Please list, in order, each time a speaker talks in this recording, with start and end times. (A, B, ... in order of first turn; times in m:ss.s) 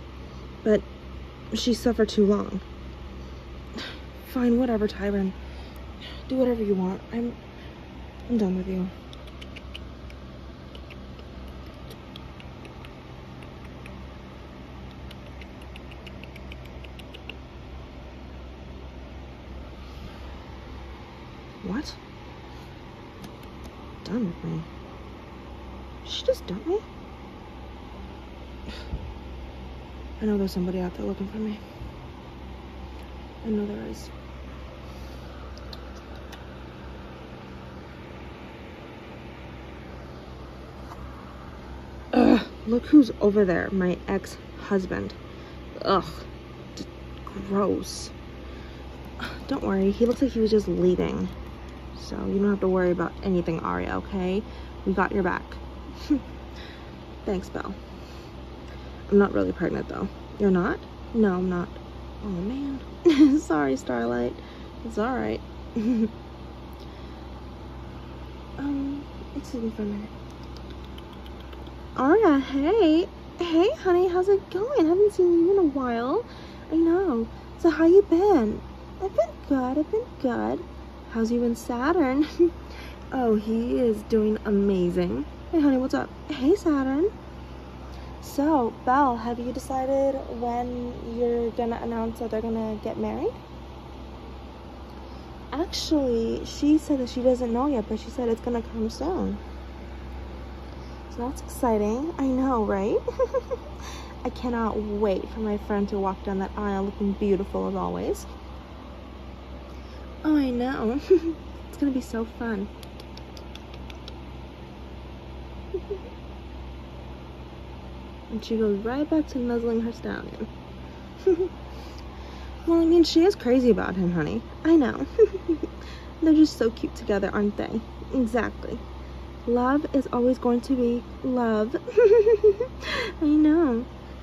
0:01.5-0:02.6 A
0:03.8-0:05.4 A
0:06.2-0:07.4 A
0:08.3-0:08.9 A
0:21.6-0:22.0 A
0:24.0-0:24.7 A
0:26.0-0:26.8 A
0:30.2-0:31.6 A
0:33.4-0:34.1 A
0:42.1-0:45.2 A
0:45.8-0:48.1 A
0:49.2-0:51.3 A
0:51.9-0:56.2 A
0:57.2-0:57.8 A
0:59.1-1:06.1 A
1:08.6-1:10.1 A
1:12.0-1:22.5 A
1:23.1-1:27.1 A
1:28.2-1:33.4 A
1:35.5-1:39.4 A
1:41.1-1:43.6 A
1:44.2-1:48.3 A
1:50.2-1:52.7 A
1:58.3-2:00.5 A
2:01.2-2:01.5 A
2:02.6-2:08.8 A
2:09.4-2:13.9 A